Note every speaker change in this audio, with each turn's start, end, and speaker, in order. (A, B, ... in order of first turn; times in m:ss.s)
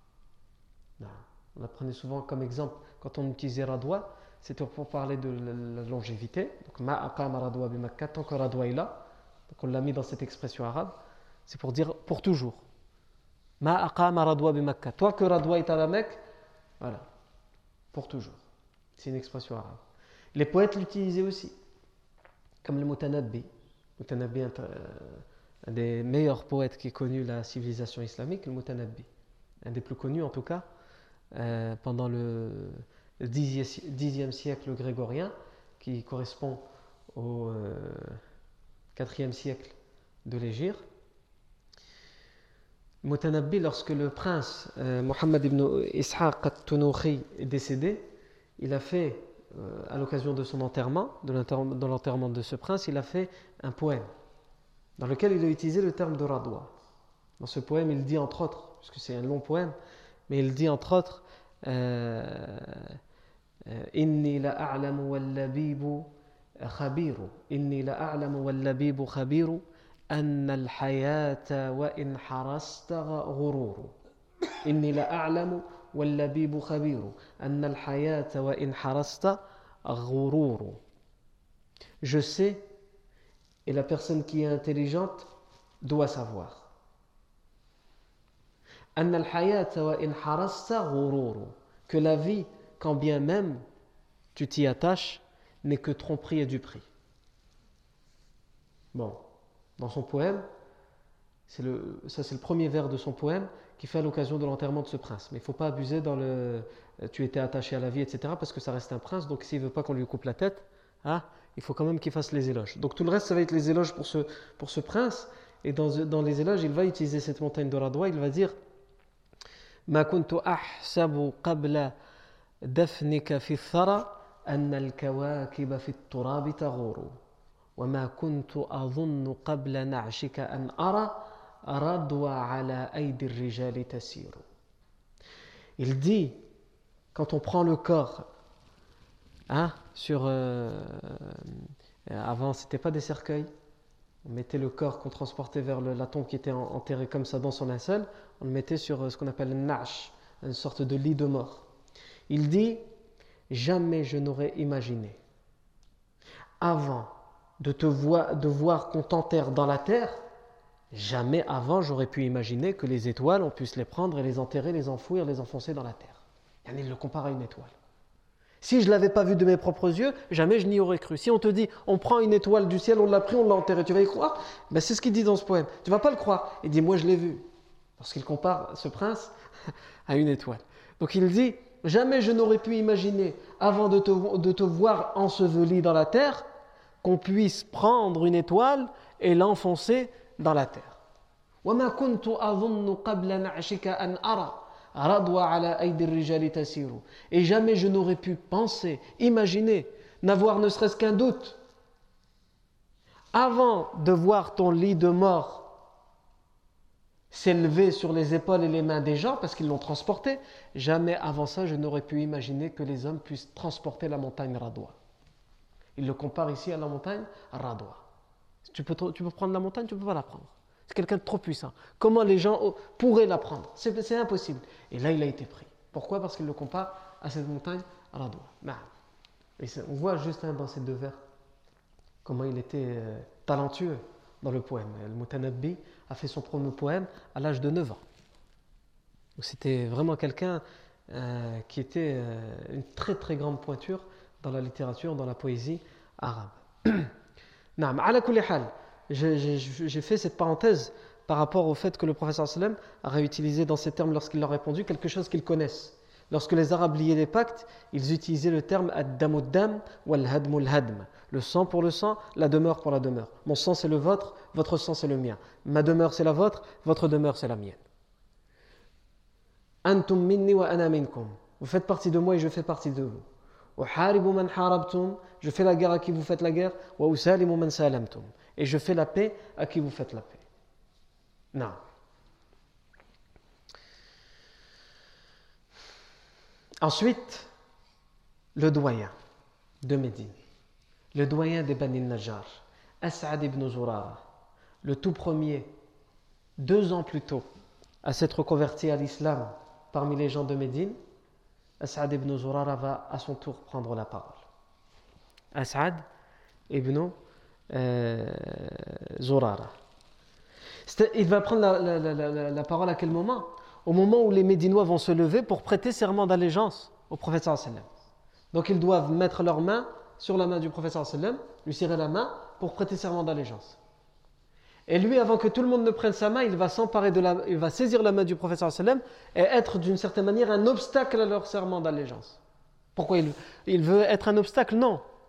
0:01.0-0:09.0 A
0:09.5-0:10.9 A
0:11.5-0:12.6 A
0:13.6-0:16.2 A
0:16.8-0:17.0 A
0:17.9-0:18.4 A
0:19.0-0:19.8 A
0:20.3-0:21.5 A
0:22.6-0:23.4 A
0:24.0-0:29.1 A
0:29.6-0:30.6 A
0:31.3-0:38.2 A
0:38.9-0:40.8 A
0:43.0-0:48.0 A
0:48.6-0:54.1 A
0:55.0-0:56.7 A
0:57.4-0:59.8 A
1:00.3-1:03.0 A
1:03.6-1:06.1 A
1:06.6-1:13.9 A
1:14.6-1:20.8 A
1:22.0-1:22.6 A
1:23.6-1:25.2 A
1:25.8-1:26.7 A
1:29.0-1:33.6 A
1:34.3-1:36.8 A
1:38.9-1:39.2 A
1:39.8-1:40.4 A
1:41.5-1:58.5 A
1:59.9-2:01.9 A
2:02.6-2:07.1 A
2:07.8-2:14.4 A
2:15.8-2:16.4 A
2:17.1-2:18.3 A
2:19.5-2:23.5 A
2:24.2-2:31.6 A
2:32.3-2:32.8 A
2:33.5-2:35.2 A
2:36.6-2:40.2 A
2:40.9-2:47.7 A
2:48.6-2:57.4 A
2:58.0-2:59.3 A
3:00.1-3:06.4 A
3:07.0-3:11.0 A
3:11.6-3:21.6 A
3:23.3-3:25.7 A
3:27.3-3:35.0 A
3:36.0-3:38.0 A
3:38.6-3:48.9 A
3:49.6-3:51.2 A
3:52.2-3:58.0 A
3:59.4-4:07.1 A
4:07.8-4:27.8 A
4:29.8-4:33.2 A
4:33.8-4:40.4 A
4:46.8-4:47.5 A
4:48.5-4:49.1 A
4:49.8-4:50.4 A
4:51.1-4:54.2 A
4:54.8-4:55.7 A
4:56.6-4:57.5 A
4:58.0-5:01.0 A
5:01.8-5:04.4 A
5:05.5-5:06.0 A
5:06.7-5:07.1 A
5:07.7-5:09.7 A
5:10.8-5:17.8 A
5:18.5-5:23.8 A
5:24.9-5:32.4 A
5:33.0-5:35.0 A